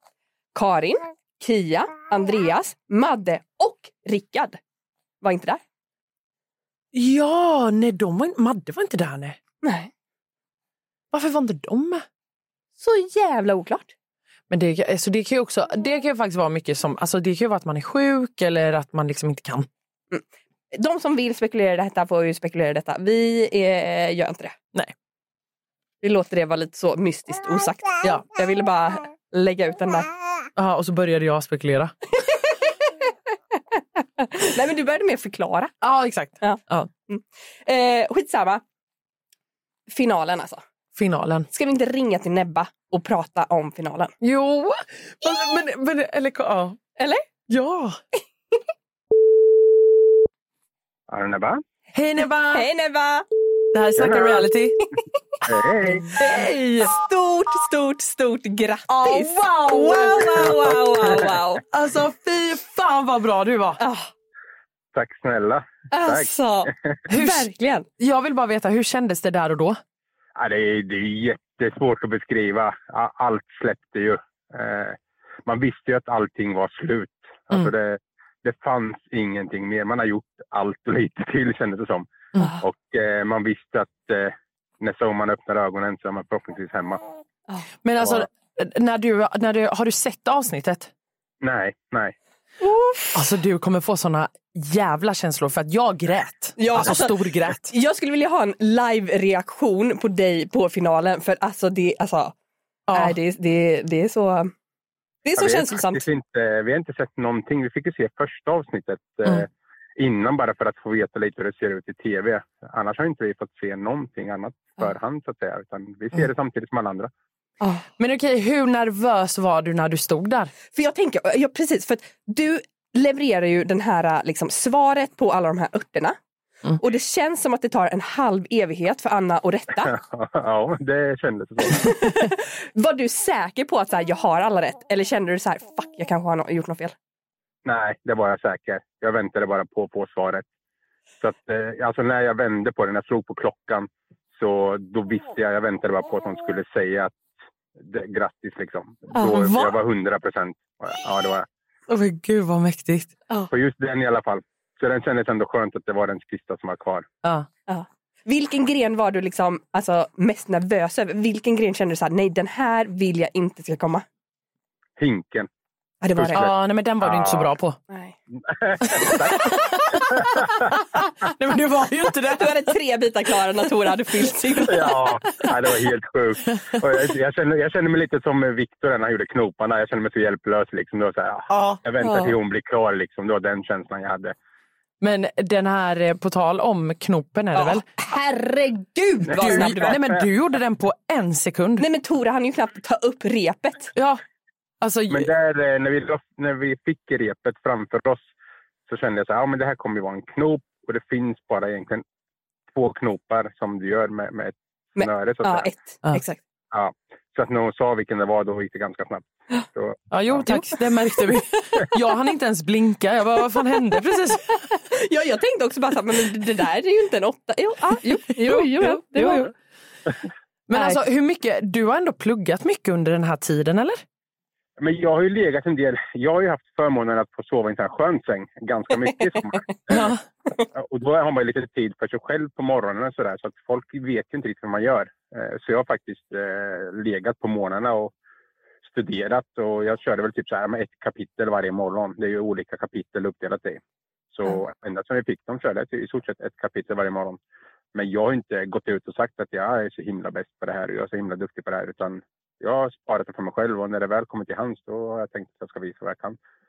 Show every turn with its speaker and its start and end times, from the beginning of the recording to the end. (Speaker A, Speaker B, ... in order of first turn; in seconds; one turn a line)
Speaker A: 0.5-4.6
Speaker A: 5.2-5.6
Speaker B: 6.9-9.4
Speaker A: 9.6-9.9
Speaker B: 11.1-12.1
Speaker A: 12.8-13.9
Speaker B: 14.5-19.7
Speaker A: 20.1-24.6
Speaker A: 26.0-30.1
Speaker B: 30.6-31.9
Speaker A: 32.3-32.7
Speaker A: 33.8-35.7
Speaker B: 35.8-36.9
Speaker A: 36.4-38.6
Speaker A: 39.9-40.6
Speaker B: 41.0-41.5
Speaker A: 41.5-44.1
Speaker B: 44.2-46.8
Speaker A: 47.0-47.3
Speaker B: 47.5-48.0
Speaker C: 51.1-51.6
Speaker B: 51.9-52.7
Speaker A: 52.5-53.3
Speaker B: 53.7-54.8
Speaker A: 54.0-54.4
Speaker C: 55.5-56.1
Speaker B: 56.1-56.9
Speaker A: 56.2-61.6
Speaker B: 58.9-61.2
Speaker B: 61.7-63.8
Speaker A: 63.8-64.1
Speaker C: 64.9-67.0
Speaker A: 65.9-67.9
Speaker B: 67.1-69.8
Speaker C: 70.4-82.1
Speaker C: 82.6-87.0
Speaker B: 87.8-90.9
Speaker C: 91.4-92.1
Speaker A: 92.6-93.2
Speaker B: 93.1-97.7
Speaker A: 96.6-102.3
Speaker B: 102.9-103.2
Speaker A: 102.9-104.5
Speaker A: 105.2-106.0
Speaker C: 105.4-117.1
Speaker B: 118.0-120.5
Speaker A: 120.7-126.2
Speaker A: 126.8-129.9
Speaker C: 129.8-131.9
Speaker A: 131.7-136.9
Speaker C: 137.7-140.4
Speaker C: 141.2-147.2
Speaker C: 147.8-151.5
Speaker B: 149.2-149.8
Speaker B: 151.9-153.2
Speaker C: 153.5-157.1
Speaker A: 157.7-164.1
Speaker C: 165.0-165.5
Speaker A: 166.0-166.5
Speaker C: 166.1-167.5
Speaker B: 166.3-167.8
Speaker A: 167.9-168.2
Speaker C: 168.5-170.7
Speaker B: 168.9-172.8
Speaker A: 168.9-169.5
Speaker A: 172.3-175.5
Speaker C: 174.7-184.3
Speaker B: 181.5-181.8
Speaker A: 182.0-182.3
Speaker B: 185.0-187.9
Speaker A: 187.6-190.0
Speaker B: 189.3-191.9
Speaker C: 189.4-190.1
Speaker A: 191.8-193.9
Speaker B: 193.9-194.2
Speaker B: 194.8-195.3
Speaker C: 195.1-198.3
Speaker C: 198.9-202.0
Speaker C: 202.7-205.7
Speaker A: 205.0-206.4
Speaker C: 206.7-210.4
Speaker B: 210.1-214.7
Speaker A: 214.7-219.5
Speaker B: 218.4-219.5
Speaker B: 220.7-224.0
Speaker A: 220.7-221.0
Speaker C: 224.8-230.1
Speaker A: 229.4-230.0
Speaker B: 229.9-230.2
Speaker C: 230.8-238.1
Speaker C: 238.8-247.4
Speaker C: 247.9-256.4